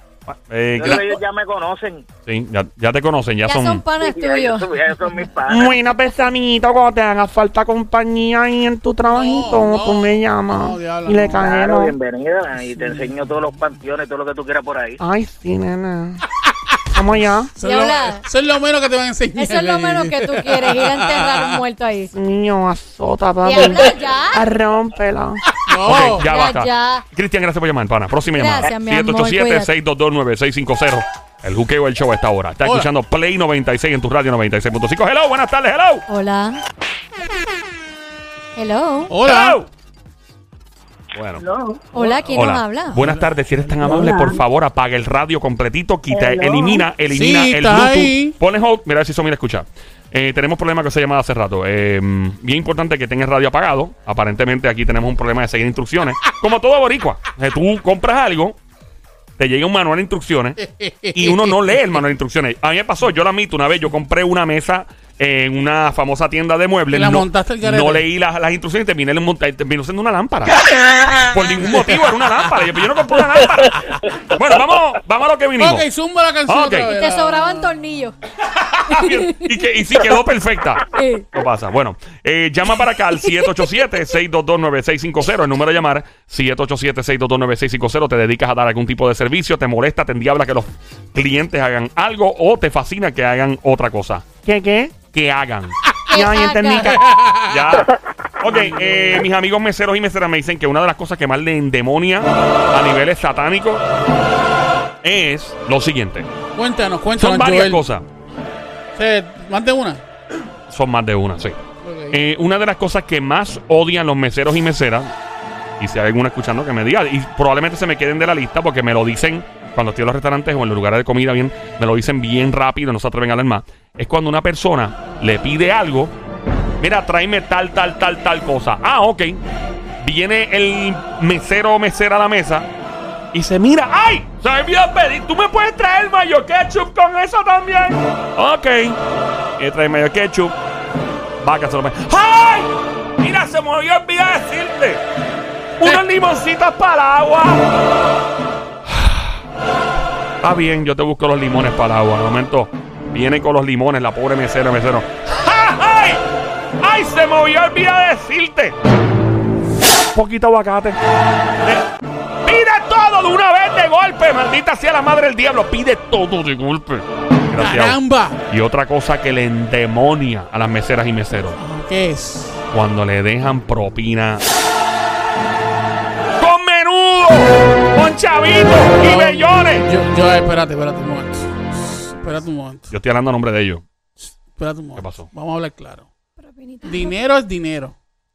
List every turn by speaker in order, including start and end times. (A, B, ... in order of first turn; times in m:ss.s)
0:00.3-0:01.2 A
0:00.8-0:02.1 B
0:02.3-0:03.8 A
0:03.4-0:05.3 C
0:04.0-0:05.8 B
0:05.5-0:12.0 D
0:09.0-0:11.5 E
0:11.4-0:15.0 B
0:15.0-0:16.2 D
0:16.9-0:17.5 D
0:17.2-0:21.6 E
0:17.6-0:18.2 C
0:19.4-0:22.1 C
0:22.1-0:25.4 D
0:23.4-0:24.4 C
0:25.6-0:26.3 E
0:25.8-0:36.0 A
0:26.2-0:27.0 C
0:28.3-0:29.7 C
0:32.6-0:32.9 E
0:36.1-0:36.6 C
0:38.6-0:39.1 C
0:39.1-0:39.6 E
0:39.2-0:39.7 A
0:41.1-0:41.4 A
0:41.4-0:42.1 B
0:41.9-0:43.0 C
0:42.3-0:58.6 A
0:42.9-0:44.0 E
0:43.9-0:44.3 B
0:46.1-0:46.8 B
0:47.1-0:48.3 E
0:59.4-1:00.6 A
1:00.6-1:02.0 E
1:01.1-1:10.6 A
1:06.9-1:08.0 E
1:11.2-1:15.8 A
1:11.7-1:12.0 E
1:15.6-1:17.7 E
1:16.5-1:16.9 A
1:16.8-1:18.1 C
1:18.6-1:34.2 A
1:18.9-1:19.6 C
1:20.9-1:21.3 C
1:34.4-1:34.9 D
1:35.1-1:35.8 A
1:36.1-1:36.9 C
1:36.1-1:37.1 D
1:36.8-1:37.8 E
1:37.5-1:43.8 A
1:45.0-1:46.3 A
1:46.5-1:47.8 E
1:47.2-1:48.0 A
1:48.9-1:50.0 E
1:50.7-1:51.6 A
1:51.8-1:52.2 E
1:52.1-1:55.1 A
1:55.8-2:06.1 A
2:06.8-2:09.4 A
2:10.0-2:12.7 A
2:13.3-2:19.0 A
2:19.6-2:20.5 A
2:21.4-2:25.0 A
2:25.8-2:27.6 A
2:28.8-2:29.4 A
2:30.4-2:36.2 A
2:36.8-2:38.8 A
2:40.1-2:41.0 A
2:42.4-2:51.6 A
2:47.5-2:48.4 E
2:51.6-2:52.6 E
2:52.7-2:54.4 A
2:56.4-2:59.9 A
2:59.0-3:02.9 E
3:02.9-3:03.8 A
3:04.3-3:06.1 E
3:05.0-3:05.3 A
3:06.4-3:07.2 C
3:06.8-3:07.9 E